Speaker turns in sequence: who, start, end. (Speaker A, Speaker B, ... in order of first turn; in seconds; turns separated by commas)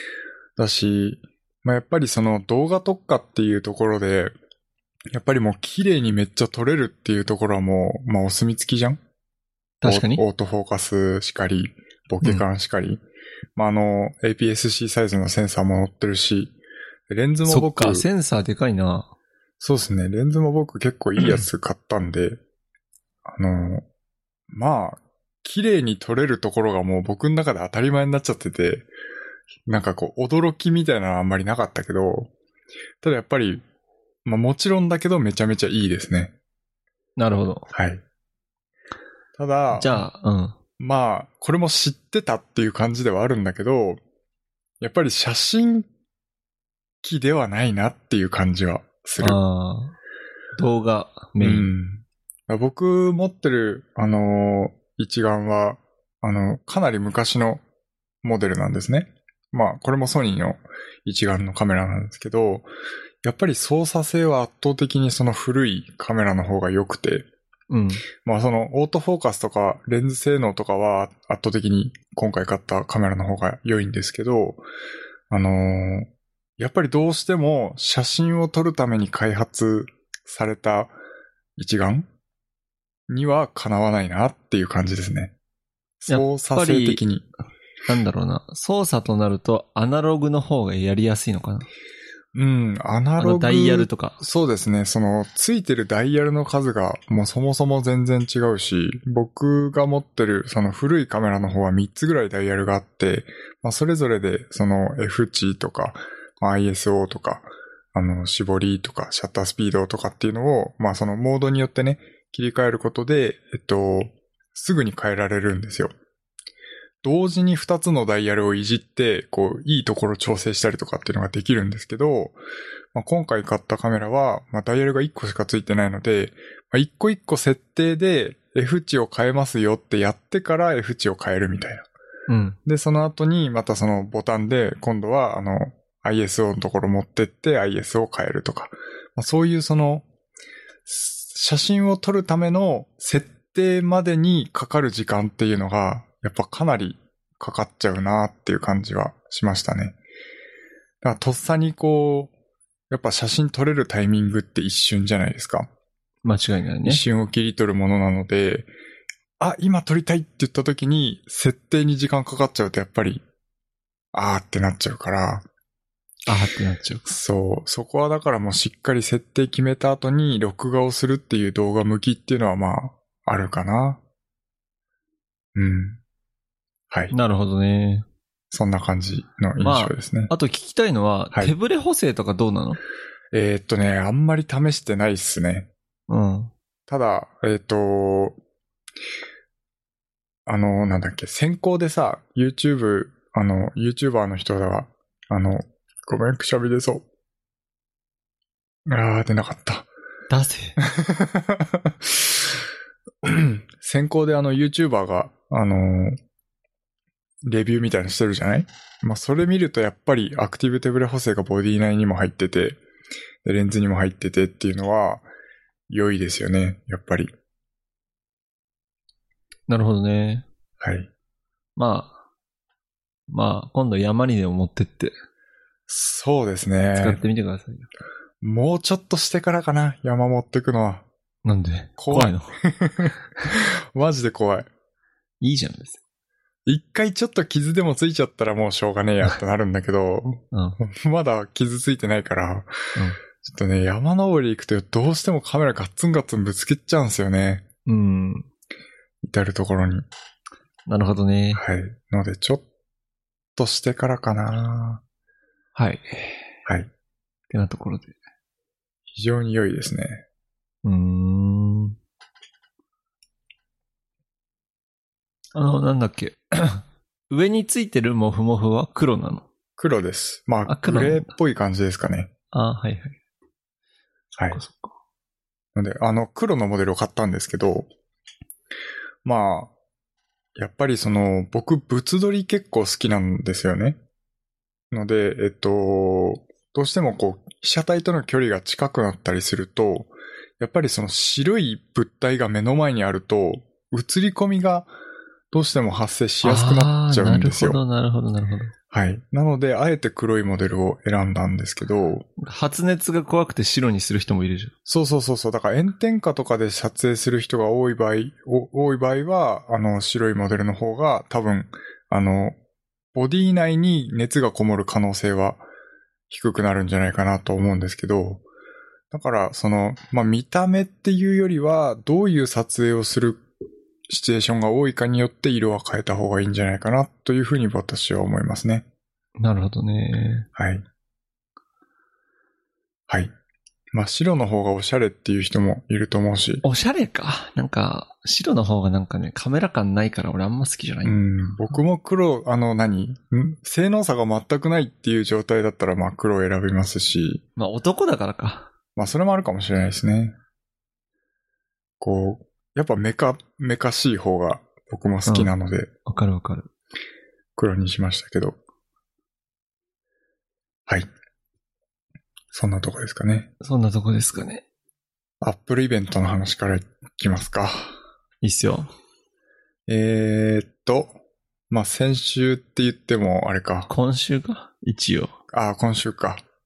Speaker A: 0.6-4.3, Speaker A: 5.1-9.0, Speaker B: 9.8-10.2, Speaker A: 9.8-13.0, Speaker A: 13.6-16.5, Speaker A: 17.1-18.1, Speaker B: 17.5-19.1, Speaker A: 19.6-22.4, Speaker B: 21.2-21.5, Speaker A: 23.3-23.9, Speaker A: 24.5-28.9, Speaker A: 29.7-32.3, Speaker A: 33.0-33.6, Speaker A: 34.2-36.3, Speaker B: 37.2-37.7, Speaker A: 37.7-38.0, Speaker A: 39.4-40.0, Speaker B: 39.7-40.5, Speaker A: 40.8-44.0, Speaker A: 44.8-45.9, Speaker A: 47.0-49.4, Speaker B: 49.2-50.0, Speaker B: 50.6-51.7, Speaker A: 51.4-57.6, Speaker A: 58.2-62.7, Speaker A: 63.2-67.3, Speaker B: 67.7-68.0, Speaker A: 68.2-74.7, Speaker A: 75.3-81.0, Speaker A: 81.6-82.1, Speaker A: 83.1-85.3, Speaker A: 86.0-87.3, Speaker B: 86.1-87.0, Speaker B: 87.9-91.7, Speaker A: 92.3-115.9, Speaker B: 93.2-94.2, Speaker A: 117.0-122.4, Speaker A: 122.9-131.9, Speaker B: 132.3-132.6, Speaker A: 132.7-140.1, Speaker A: 140.9-150.0, Speaker A: 151.0-152.3, Speaker A: 152.9-155.7, Speaker B: 156.2-157.0, Speaker A: 156.8-158.7, Speaker A: 159.4-163.2, Speaker A: 164.1-165.5, Speaker B: 166.3-167.1, Speaker A: 167.1-174.0, Speaker A: 175.6-176.0, Speaker B: 177.1-178.1, Speaker A: 178.5-180.3, Speaker B: 179.6-182.8, Speaker A: 183.3-185.7, Speaker B: 186.1-186.5, Speaker A: 186.9-188.4, Speaker A: 190.5-197.1, Speaker A: 198.9-199.9, Speaker B: 200.3-200.8, Speaker A: 200.8-202.5, Speaker A: 203.2-206.2, Speaker A: 207.4-212.8, Speaker A: 213.4-215.3, Speaker A: 215.9-217.3, Speaker B: 219.7-220.4, Speaker A: 220.8-221.1, Speaker B: 221.8-222.2, Speaker B: 223.3-225.2, Speaker A: 225.9-227.2, Speaker B: 227.0-227.9, Speaker A: 228.4-231.1, Speaker B: 231.4-232.6, Speaker A: 232.0-234.7, Speaker B: 235.4-236.0, Speaker A: 236.7-242.7, Speaker B: 240.5-240.8, Speaker A: 243.4-247.7, Speaker B: 247.9-248.5, Speaker A: 249.2-250.1, Speaker B: 250.9-251.6, Speaker A: 251.6-252.6, Speaker A: 253.6-255.0, Speaker B: 255.8-256.4, Speaker B: 257.5-258.1, Speaker A: 259.1-260.2, Speaker B: 260.8-262.0, Speaker B: 265.6-269.5, Speaker A: 269.8-272.3, Speaker B: 270.7-271.3, Speaker B: 272.5-273.1, Speaker B: 274.5-274.9, Speaker A: 275.8-277.9, Speaker A: 279.2-279.7, Speaker A: 280.6-284.0, Speaker A: 284.9-294.9, Speaker A: 295.5-297.8, Speaker B: 296.4-298.7, Speaker A: 298.9-302.3, Speaker B: 302.4-304.7, Speaker A: 304.9-312.6, Speaker A: 313.1-315.6, Speaker A: 316.3-318.4, Speaker A: 319.1-323.4, Speaker A: 324.1-328.9, Speaker B: 329.4-330.5, Speaker A: 330.6-330.9, Speaker A: 333.9-336.6, Speaker B: 336.6-341.2, Speaker A: 341.0-347.4, Speaker B: 347.6-348.7, Speaker A: 349.0-350.4, Speaker A: 352.0-355.9, Speaker B: 355.3-355.5, Speaker B: 356.1-356.7, Speaker A: 357.6-358.6, Speaker A: 362.5-363.5, Speaker B: 363.6-364.6, Speaker A: 365.4-368.0, Speaker B: 368.4-368.9, Speaker A: 369.9-371.2, Speaker A: 371.7-373.9, Speaker B: 373.9-375.3, Speaker A: 375.5-376.4